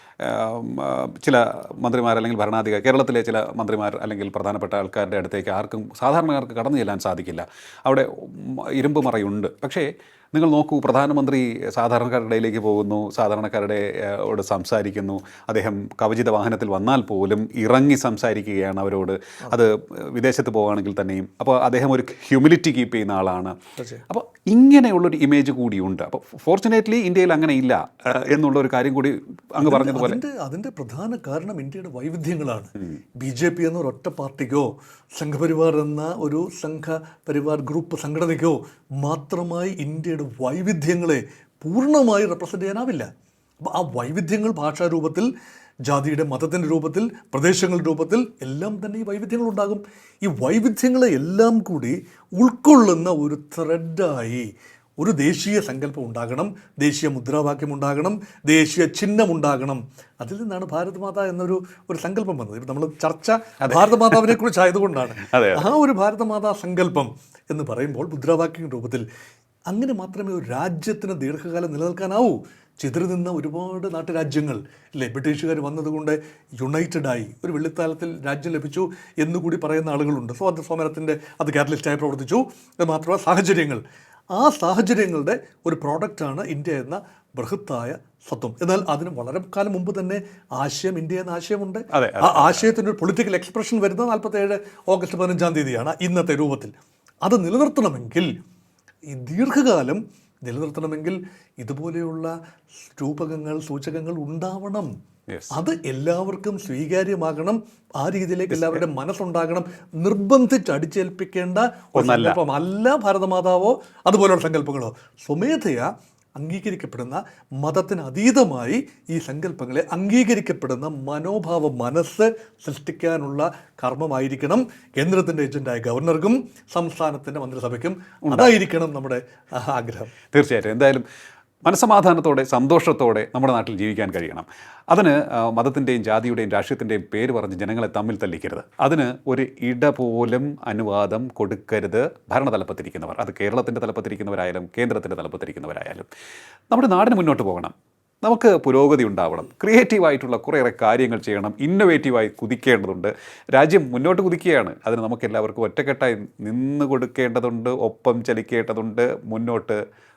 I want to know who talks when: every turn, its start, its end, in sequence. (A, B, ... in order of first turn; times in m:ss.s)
0:00.2-0:23.6 A
0:23.8-0:24.0 B
0:24.1-0:30.2 A
0:29.6-0:43.1 B
0:43.6-0:45.3 B
0:45.9-0:54.5 B
0:55.0-1:09.0 B
1:03.6-1:04.3 A
1:05.2-1:05.6 A
1:09.7-1:23.8 B
1:24.4-1:36.7 B
1:31.9-1:32.8 A
1:37.2-1:38.3 B
1:39.1-1:42.3 B
1:42.9-1:44.9 B
1:45.5-2:10.1 B
1:48.5-1:48.8 A
1:52.0-1:52.4 A
2:08.3-2:08.5 A
2:10.3-2:11.0 A
2:11.6-2:26.1 A
2:26.7-2:39.8 A